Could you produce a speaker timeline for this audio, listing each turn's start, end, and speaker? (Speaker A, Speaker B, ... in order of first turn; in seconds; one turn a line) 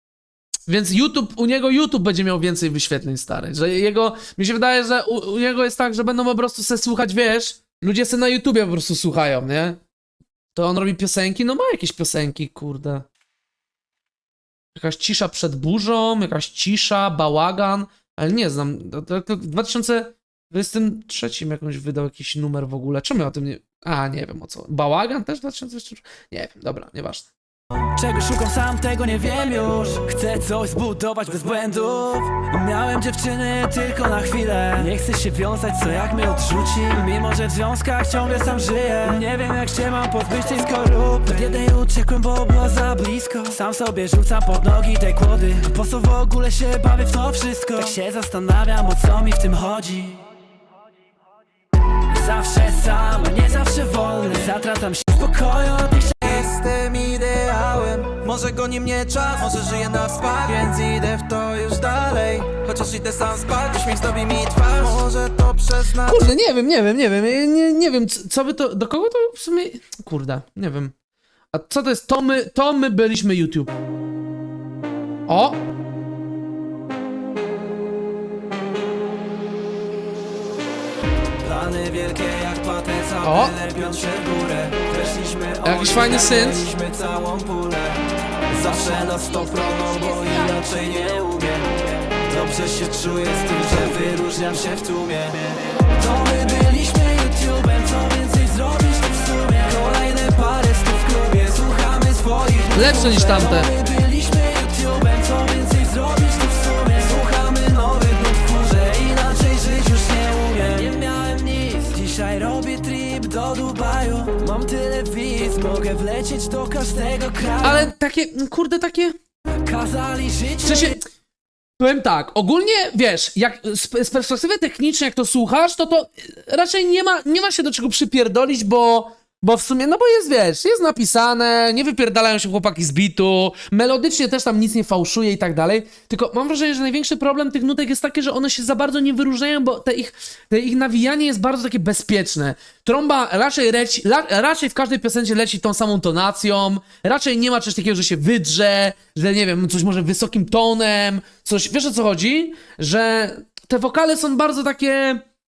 Speaker A: 0.7-9.8
Speaker A: 10.5-13.1
Speaker A: 14.7-27.3
Speaker B: 27.9-50.2
Speaker B: 52.1-56.4
Speaker C: 56.2-66.3
Speaker A: 66.0-70.9
Speaker A: 71.5-73.7
Speaker A: 75.3-75.6
Speaker C: 81.4-88.0
Speaker B: 81.5-86.7
Speaker A: 83.2-83.5
Speaker A: 85.6-86.7
Speaker B: 88.5-94.8
Speaker C: 88.5-91.3
Speaker C: 92.3-95.3
Speaker B: 95.9-117.9
Speaker A: 102.7-103.7
Speaker A: 117.6-119.2
Speaker B: 119.6-121.0
Speaker A: 120.6-121.0
Speaker A: 121.8-155.2